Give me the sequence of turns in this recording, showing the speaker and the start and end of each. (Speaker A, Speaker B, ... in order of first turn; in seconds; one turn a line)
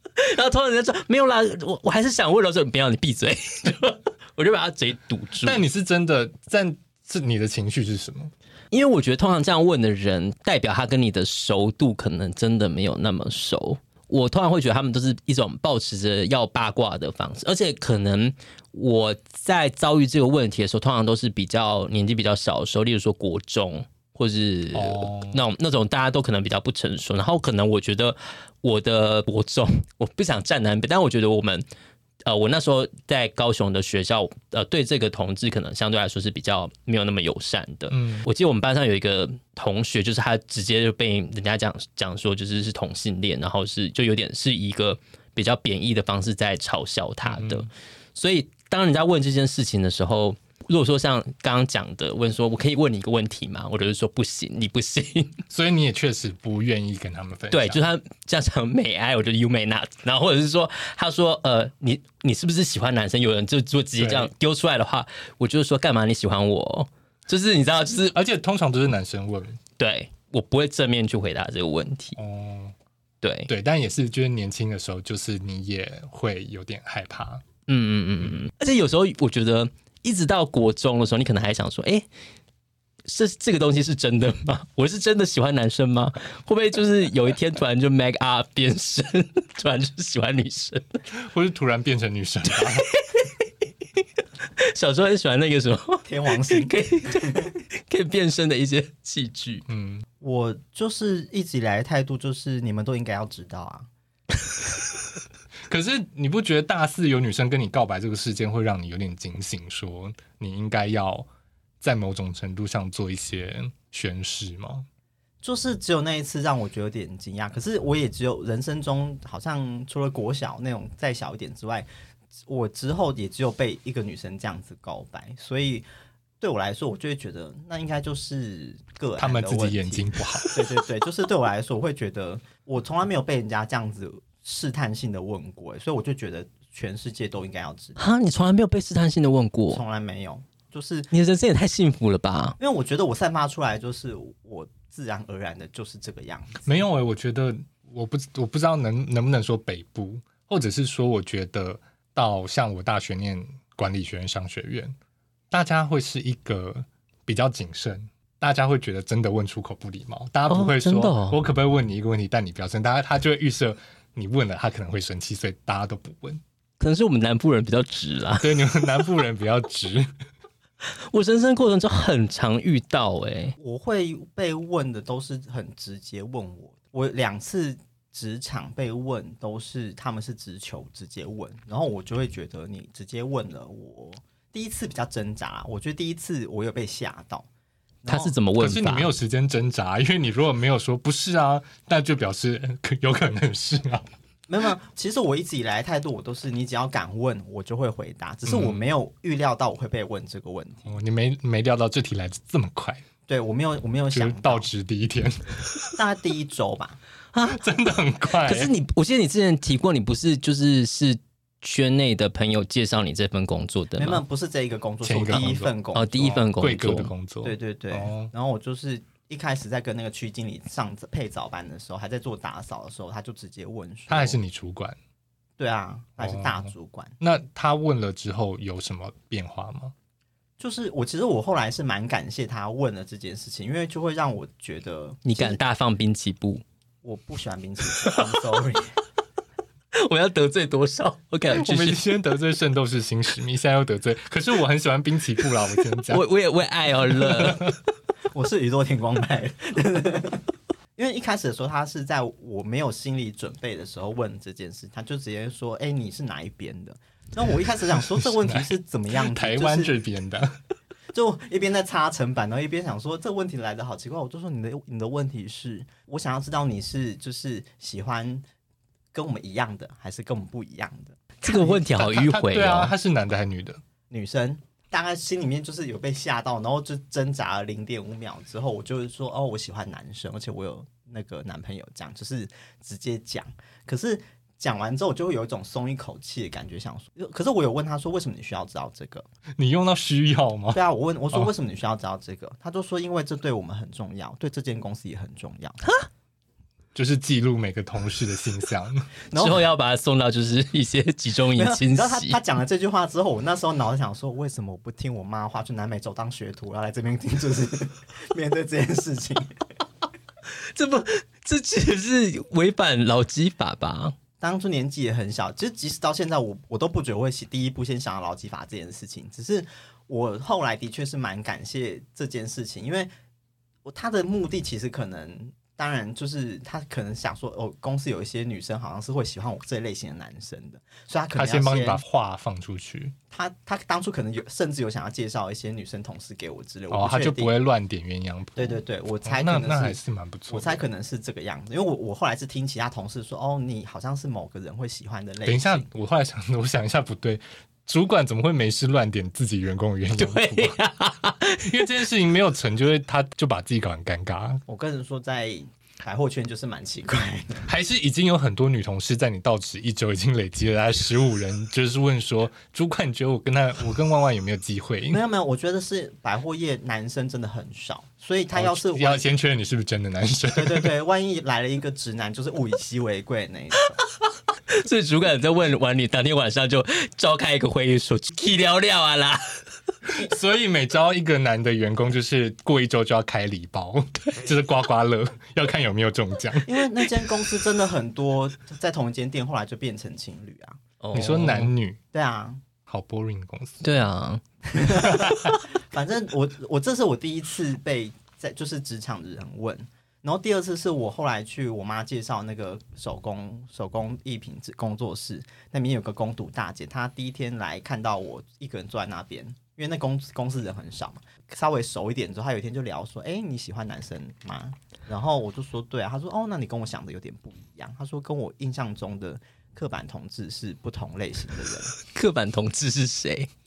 Speaker A: 0.2-5.6
Speaker B: 5.4-8.3
Speaker A: 8.7-31.6
Speaker B: 24.7-25.4
Speaker A: 32.3-55.4
Speaker B: 37.9-38.3
Speaker B: 47.2-47.7
Speaker B: 55.5-57.8
Speaker A: 57.5-68.2
Speaker B: 64.0-64.3
Speaker B: 68.1-69.6
Speaker A: 69.8-72.2
Speaker B: 72.2-72.8
Speaker A: 73.2-73.5
Speaker B: 73.5-77.4
Speaker A: 77.7-82.1
Speaker A: 83.1-91.0
Speaker B: 91.1-92.9
Speaker A: 92.6-93.5
Speaker A: 94.6-99.7
Speaker C: 96.1-97.5
Speaker B: 99.7-100.1
Speaker C: 100.2-103.9
Speaker B: 105.7-111.3
Speaker B: 111.8-114.9
Speaker C: 115.4-121.9
Speaker C: 122.5-125.9
Speaker C: 126.4-138.0
Speaker B: 129.2-130.6
Speaker A: 138.0-139.8
Speaker C: 139.7-141.1
Speaker A: 141.1-142.6
Speaker C: 142.6-146.7
Speaker B: 146.7-154.9
Speaker B: 155.5-166.4
Speaker A: 160.5-161.4
Speaker A: 166.8-168.8
Speaker B: 168.4-170.1
Speaker A: 171.0-173.6
Speaker C: 173.6-187.5
Speaker C: 188.0-188.3
Speaker A: 188.1-189.1
Speaker B: 188.6-194.1
Speaker C: 194.5-200.9
Speaker B: 198.5-198.8
Speaker B: 200.9-203.0
Speaker C: 203.3-204.7
Speaker B: 204.1-206.0
Speaker C: 205.9-207.0
Speaker A: 207.3-207.6
Speaker B: 207.5-208.7
Speaker A: 208.4-214.2
Speaker C: 214.0-216.4
Speaker B: 215.0-215.7
Speaker A: 215.9-217.1
Speaker B: 216.3-218.3
Speaker C: 217.4-224.4
Speaker B: 224.1-225.0
Speaker C: 225.6-227.2
Speaker B: 226.2-226.7
Speaker B: 227.2-229.9
Speaker C: 230.6-235.6
Speaker A: 235.2-236.6
Speaker C: 237.0-238.9
Speaker A: 239.9-242.1
Speaker B: 241.5-246.2
Speaker A: 246.1-247.7
Speaker B: 247.2-247.7
Speaker C: 248.3-259.9
Speaker B: 258.1-260.6
Speaker C: 261.1-268.4
Speaker C: 269.1-271.8
Speaker A: 271.4-272.9
Speaker B: 271.9-273.8
Speaker C: 274.1-289.3
Speaker B: 289.6-291.5
Speaker C: 290.7-295.8
Speaker B: 296.9-299.1
Speaker C: 299.3-299.7
Speaker A: 299.4-302.4
Speaker C: 301.6-309.6
Speaker A: 310.5-314.1
Speaker C: 314.4-323.1
Speaker C: 323.9-332.0
Speaker B: 331.3-333.1
Speaker C: 333.3-337.5
Speaker B: 336.9-340.8
Speaker C: 338.6-345.9
Speaker B: 345.5-350.8
Speaker A: 350.2-351.9
Speaker B: 351.6-354.6
Speaker C: 354.7-357.7
Speaker B: 357.7-365.2
Speaker C: 365.1-369.3
Speaker B: 368.5-370.9
Speaker C: 370.5-374.0
Speaker A: 374.7-379.4
Speaker B: 380.1-386.7
Speaker C: 386.6-390.8
Speaker A: 391.0-391.7
Speaker B: 391.1-392.0
Speaker C: 392.1-392.6
Speaker B: 392.9-393.9
Speaker A: 393.8-394.4
Speaker C: 394.7-421.9
Speaker B: 395.0-395.6
Speaker A: 422.0-423.5